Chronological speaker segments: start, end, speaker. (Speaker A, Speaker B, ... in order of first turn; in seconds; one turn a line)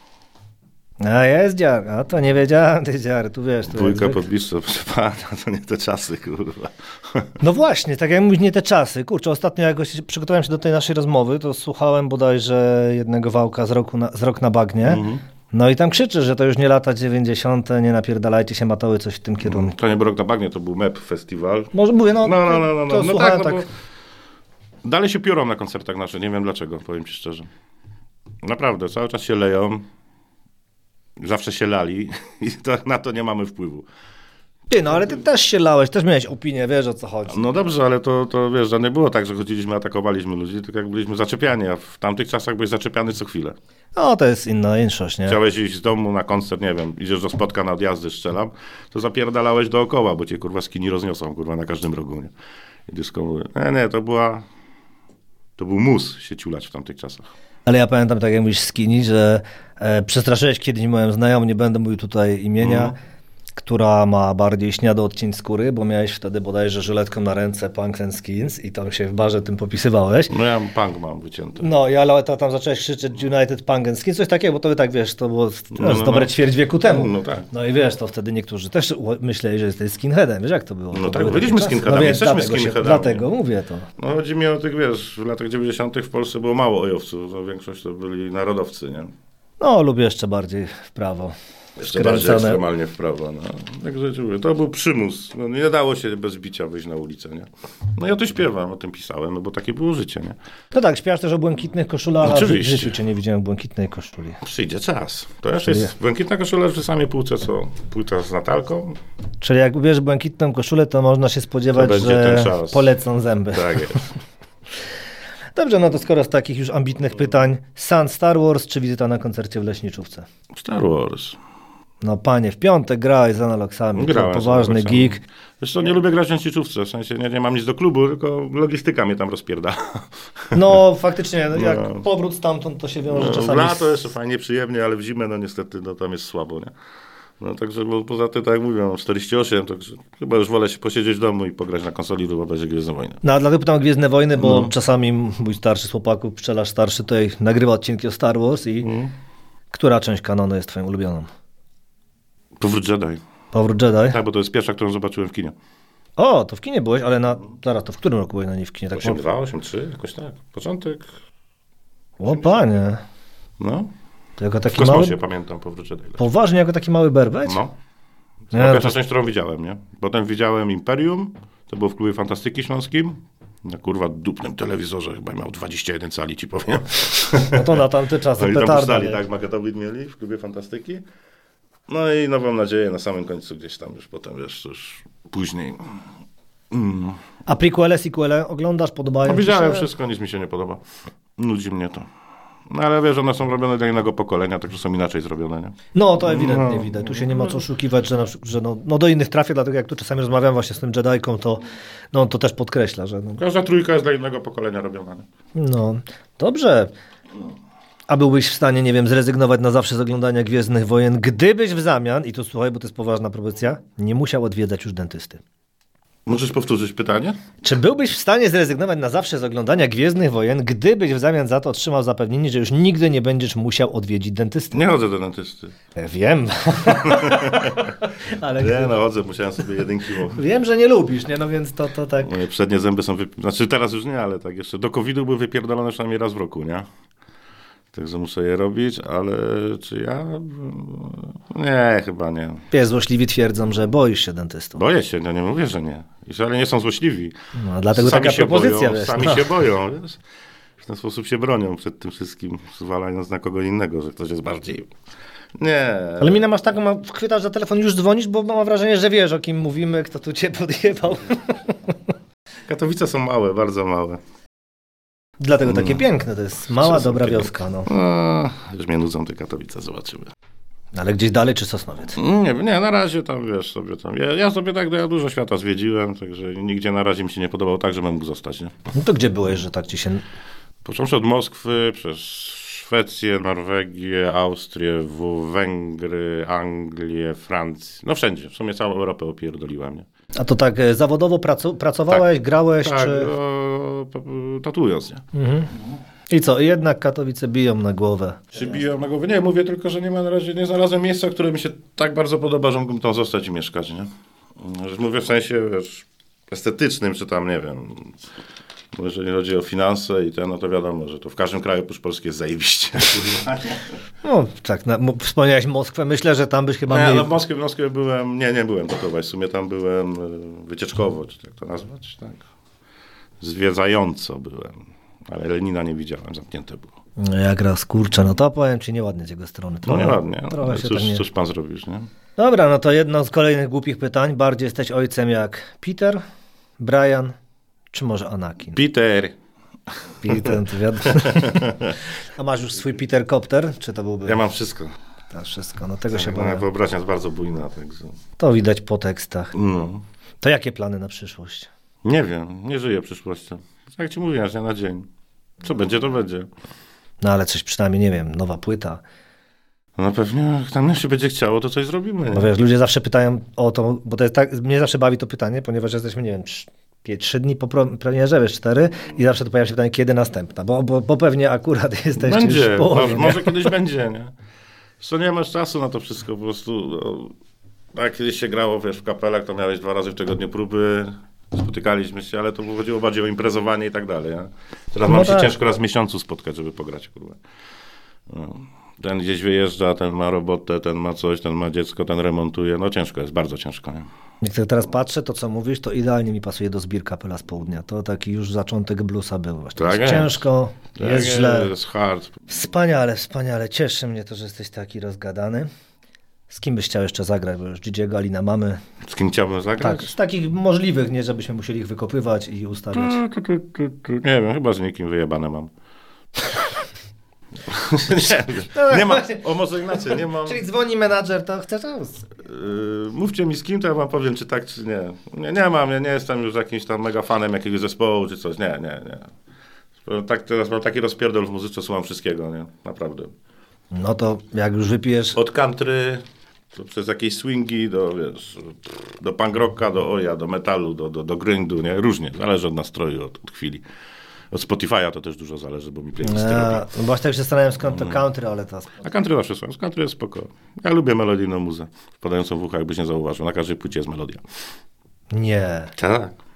Speaker A: 1.0-4.2
Speaker B: 3.7-7.3
Speaker A: 7.4-19.8
Speaker B: 14.8-15.2
Speaker B: 19.4-23.7
Speaker A: 21.7-23.6
Speaker B: 24.8-27.5
Speaker B: 28.4-29.8
Speaker B: 31.2-33.9
Speaker A: 34.7-37.4
Speaker B: 37.3-43.5
Speaker A: 44.0-45.4
Speaker B: 45.2-52.3
Speaker B: 52.9-54.5
Speaker B: 55.6-57.3
Speaker A: 57.6-63.0
Speaker B: 62.6-62.9
Speaker A: 63.6-70.3
Speaker B: 70.3-71.7
Speaker A: 71.6-83.9
Speaker B: 75.7-77.5
Speaker B: 80.9-83.2
Speaker B: 84.0-89.1
Speaker A: 89.6-92.6
Speaker B: 91.8-100.3
Speaker A: 100.7-104.4
Speaker B: 102.2-103.0
Speaker B: 104.4-109.0
Speaker A: 105.6-105.9
Speaker A: 109.4-114.0
Speaker B: 111.7-112.8
Speaker B: 113.5-114.1
Speaker A: 115.5-120.3
Speaker B: 120.5-121.4
Speaker A: 122.0-125.2
Speaker B: 124.0-130.8
Speaker A: 130.5-134.0
Speaker B: 131.5-132.0
Speaker B: 133.1-136.7
Speaker B: 137.4-143.2
Speaker A: 143.2-148.9
Speaker B: 144.4-144.7
Speaker B: 148.8-149.1
Speaker A: 149.7-151.3
Speaker B: 152.6-153.2
Speaker A: 153.5-154.2
Speaker B: 154.1-155.5
Speaker A: 156.2-159.3
Speaker B: 158.9-161.1
Speaker A: 162.2-163.0
Speaker B: 162.2-162.6
Speaker B: 163.6-163.9
Speaker A: 164.4-165.2
Speaker B: 164.7-166.2
Speaker A: 166.2-167.6
Speaker B: 167.5-167.7
Speaker B: 168.5-177.8
Speaker A: 168.5-168.9
Speaker A: 177.5-179.2
Speaker B: 178.4-181.0
Speaker B: 181.9-186.0
Speaker B: 186.7-187.2
Speaker A: 187.5-189.9
Speaker B: 189.2-190.8
Speaker B: 191.4-192.1
Speaker B: 192.7-197.6
Speaker A: 195.9-203.4
Speaker B: 203.4-205.2
Speaker A: 205.5-206.9
Speaker A: 208.1-215.4
Speaker B: 216.2-217.4
Speaker A: 217.6-224.8
Speaker B: 224.7-225.7
Speaker A: 226.0-228.9
Speaker B: 226.8-227.9
Speaker B: 228.6-230.4
Speaker A: 230.3-232.3
Speaker B: 232.2-236.8
Speaker B: 237.9-242.7
Speaker A: 242.7-244.8
Speaker B: 244.8-247.3
Speaker A: 247.5-249.5
Speaker B: 247.9-250.2
Speaker B: 250.8-254.9
Speaker B: 255.5-256.4
Speaker A: 256.2-261.9
Speaker B: 262.7-264.2
Speaker A: 265.4-267.9
Speaker B: 265.7-266.0
Speaker B: 266.8-270.3
Speaker A: 270.9-272.2
Speaker B: 272.1-278.8
Speaker A: 278.9-280.2
Speaker B: 280.8-290.1
Speaker A: 290.4-293.3
Speaker B: 292.8-295.2
Speaker A: 295.3-295.7
Speaker A: 296.3-298.5
Speaker B: 298.5-308.2
Speaker B: 308.9-313.9
Speaker A: 314.2-317.3
Speaker B: 316.9-322.4
Speaker B: 323.4-326.9
Speaker A: 327.2-331.2
Speaker B: 329.9-332.1
Speaker A: 332.4-336.2
Speaker A: 336.8-337.4
Speaker A: 337.9-338.8
Speaker B: 338.7-339.3
Speaker A: 340.2-344.4
Speaker B: 340.2-342.0
Speaker B: 344.2-344.9
Speaker A: 345.3-346.7
Speaker B: 346.1-348.2
Speaker A: 348.4-349.5
Speaker B: 349.5-350.0
Speaker A: 350.4-351.7
Speaker B: 352.0-355.1
Speaker B: 355.6-356.5
Speaker A: 357.2-359.0
Speaker B: 360.0-362.5
Speaker A: 362.3-373.7
Speaker B: 372.2-374.3
Speaker B: 375.0-377.4
Speaker B: 377.9-387.4
Speaker A: 385.1-385.5
Speaker B: 388.3-394.1
Speaker A: 394.4-401.7
Speaker B: 399.8-400.4
Speaker B: 401.0-402.4
Speaker A: 402.5-405.7
Speaker A: 406.5-408.8
Speaker B: 409.0-410.1
Speaker A: 409.8-413.2
Speaker B: 412.9-415.7
Speaker B: 417.6-420.6
Speaker A: 418.7-422.3
Speaker B: 422.4-429.3
Speaker B: 430.0-433.3
Speaker A: 433.9-435.4
Speaker B: 435.3-443.8
Speaker B: 444.5-446.9
Speaker A: 446.2-449.0
Speaker B: 447.9-448.2
Speaker B: 449.0-454.4
Speaker A: 455.3-455.9
Speaker B: 456.0-456.4